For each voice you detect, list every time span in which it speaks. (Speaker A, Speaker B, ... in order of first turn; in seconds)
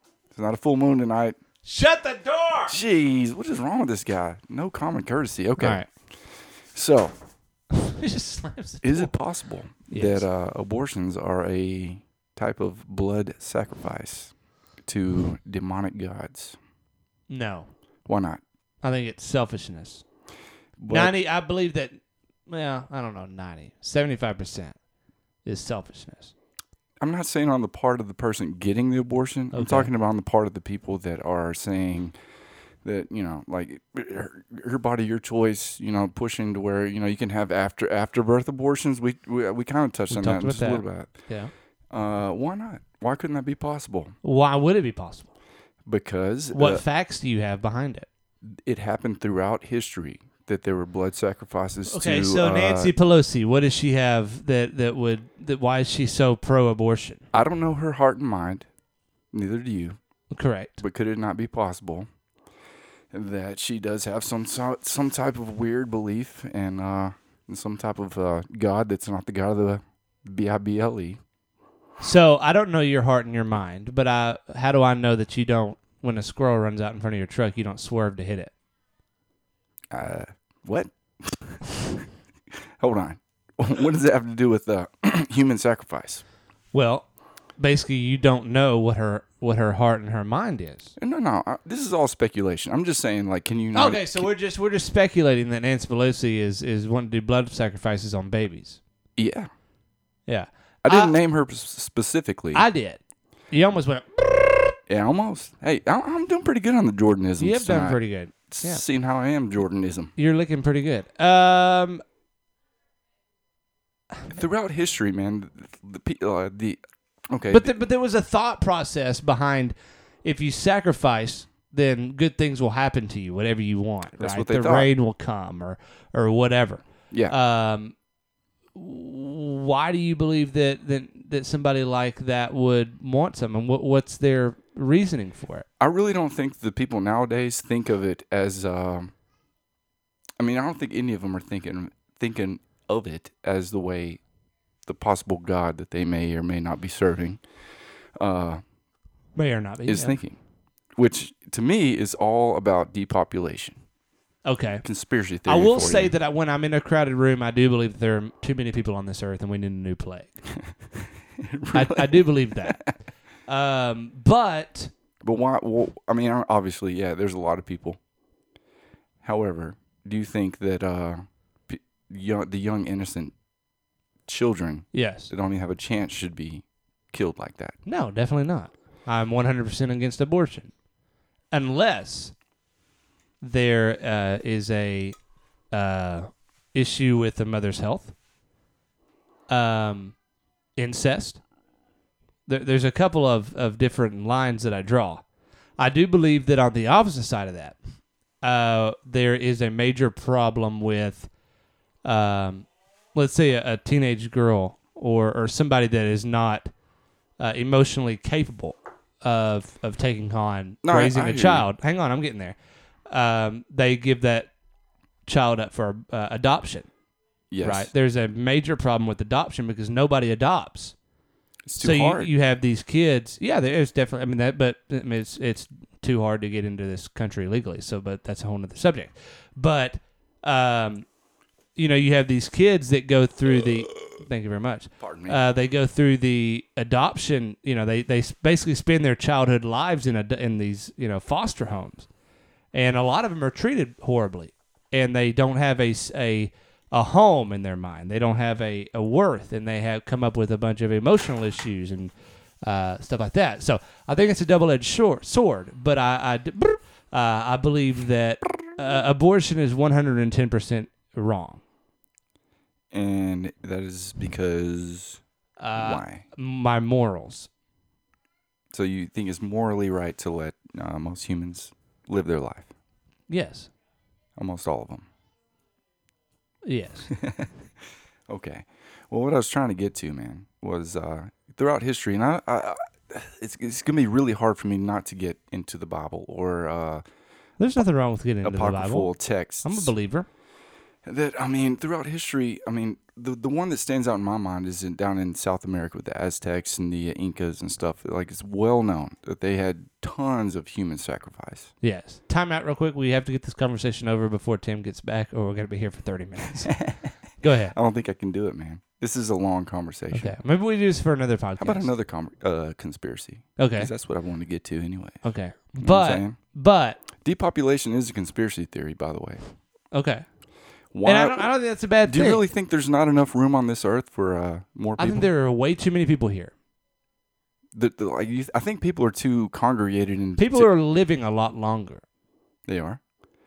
Speaker A: 0.3-1.4, 2.7-5.9, 6.7-7.1, 8.8-14.3, 14.8-16.6, 18.1-18.4, 20.8-21.1, 27.0-32.1, 32.8-41.1, 41.9-44.1, 45.9-46.8, 48.4-52.9, 57.3-58.7, 59.3-60.0, 60.8-62.1, 63.1-71.2, 79.9-82.0, 82.8-86.2, 91.0-94.3, 99.2-99.5, 100.8-102.7, 104.9-110.1, 114.3-117.7, 124.2-124.9, 127.1-127.4, 135.8-139.1, 140.4-144.2, 144.9-147.4, 148.2-148.6, 149.9-150.4, 151.0-153.8, 154.8-156.1, 161.4-162.9, 165.2-168.0, 169.2-173.3, 174.3-177.8, 210.8-211.7, 217.5-217.9, 221.7-222.3, 235.0-235.4, 262.9-265.2, 265.8-266.2, 268.7-272.7, 274.4-275.1, 277.1-277.5, 278.3-287.0, 288.4-289.9, 291.1-301.7, 306.7-307.0, 307.7-310.3, 311.6-316.4, 317.2-319.4, 320.9-321.5, 322.0-325.3, 327.8-330.7, 332.7-333.0
Speaker B: 1.6-2.8, 5.6-5.9, 7.7-9.1, 9.9-10.2, 17.3-17.7, 18.8-20.0, 20.9-22.0, 22.5-24.8, 25.4-26.3, 29.5-29.9, 40.1-41.5, 44.2-45.3, 46.5-48.1, 51.9-57.2, 60.3-60.8, 72.0-78.5, 86.7-90.9, 93.7-98.8, 100.3-101.2, 102.5-103.0, 103.5-104.8, 107.4-108.8, 110.2-112.0, 117.5-128.0, 128.8-135.7, 149.3-150.2, 154.4-154.8, 155.4-160.4, 161.7-162.9, 163.5-164.9, 174.9-175.3, 177.9-180.7, 181.5-182.3, 183.4-185.2, 185.7-188.1, 189.5-190.2, 190.8-191.4, 192.5-195.2, 195.8-197.8, 198.4-201.3, 202.0-206.7, 207.4-212.6, 213.1-214.5, 215.3-216.9, 217.6-220.9, 221.8-231.1, 231.8-242.1, 242.7-261.6, 265.6-267.5, 273.3-273.7, 276.6-277.1, 287.6-290.3, 301.8-307.8, 310.1-311.9, 313.6-313.9, 315.2-317.0, 319.9-320.2, 321.0-322.4, 325.0-326.5, 330.4-332.0